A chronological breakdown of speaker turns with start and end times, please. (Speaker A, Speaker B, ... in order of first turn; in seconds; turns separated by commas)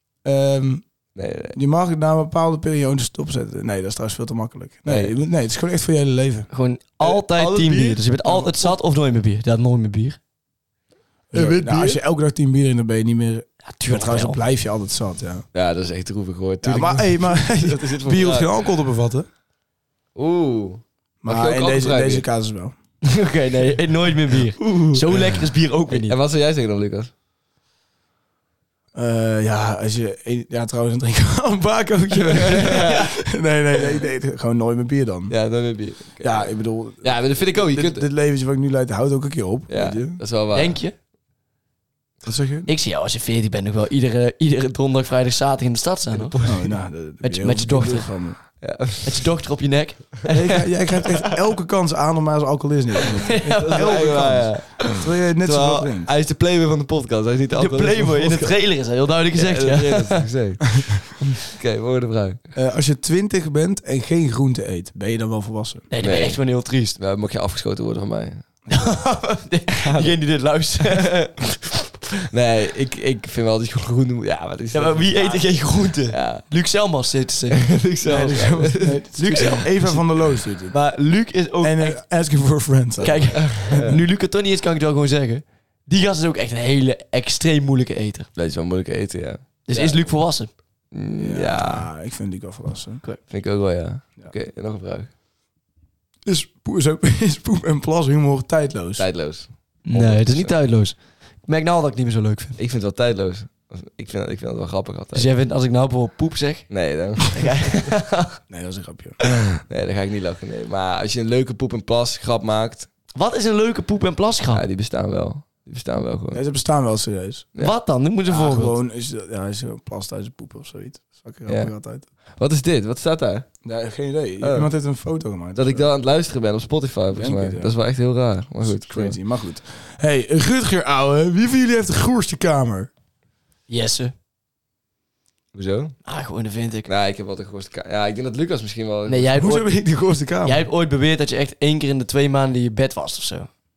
Speaker A: 0.2-6.5, Speaker B: 1.1-1.6, Speaker B: 4.9-5.1, Speaker C: 6.5-10.2, Speaker B: 7.0-8.7, Speaker A: 11.3-15.4, Speaker B: 11.3-12.0, Speaker C: 13.7-14.4, Speaker B: 15.5-18.6, Speaker A: 16.6-19.3, Speaker B: 20.1-22.3, Speaker A: 21.2-22.7, Speaker C: 23.0-26.2, Speaker B: 24.6-25.3, Speaker B: 25.9-27.1, Speaker A: 28.9-35.4, Speaker B: 32.1-33.2, Speaker B: 35.3-38.1, Speaker A: 36.2-40.2, Speaker B: 39.7-40.8, Speaker C: 40.5-40.9, Speaker A: 42.2-42.7, Speaker C: 42.7-46.4, Speaker B: 46.1-46.6, Speaker A: 46.4-48.4, Speaker C: 47.2-48.1, Speaker B: 48.6-49.3, Speaker C: 49.0-50.3, Speaker A: 50.3-56.1, Speaker C: 53.3-54.0, Speaker B: 53.5-58.6, Speaker C: 57.5-60.3, Speaker B: 59.3-62.4, Speaker A: 62.5-65.9, Speaker C: 65.9-67.0, Speaker B: 66.0-68.4, Speaker C: 68.7-71.3, Speaker B: 69.7-70.2, Speaker B: 70.9-71.3, Speaker B: 72.3-76.5, Speaker C: 74.7-77.7, Speaker B: 77.6-79.6, Speaker A: 78.1-80.8, Speaker C: 79.2-82.0, Speaker A: 81.6-84.0, Speaker C: 83.0-88.3, Speaker B: 83.4-84.0, Speaker B: 88.4-91.9, Speaker C: 89.7-90.5, Speaker A: 91.2-93.0, Speaker B: 93.2-95.1, Speaker A: 96.2-99.1, Speaker B: 99.0-100.5, Speaker C: 99.8-102.6, Speaker B: 102.6-105.3, Speaker C: 105.1-106.7, Speaker B: 106.7-107.4, Speaker C: 107.3-108.4, Speaker A: 108.5-109.3, Speaker B: 109.6-112.9, Speaker C: 113.1-114.6, Speaker B: 114.5-116.4, Speaker A: 116.3-117.5, Speaker C: 117.6-118.8, Speaker A: 118.3-122.1, Speaker B: 122.4-123.5, Speaker A: 123.6-125.9, Speaker B: 124.4-124.7, Speaker B: 125.6-129.2, Speaker A: 127.1-127.8, Speaker A: 128.6-132.9, Speaker C: 133.7-134.1, Speaker B: 135.5-136.0, Speaker C: 136.1-136.9, Speaker B: 136.9-139.4, Speaker C: 139.1-139.7, Speaker A: 139.3-140.7, Speaker C: 140.4-143.5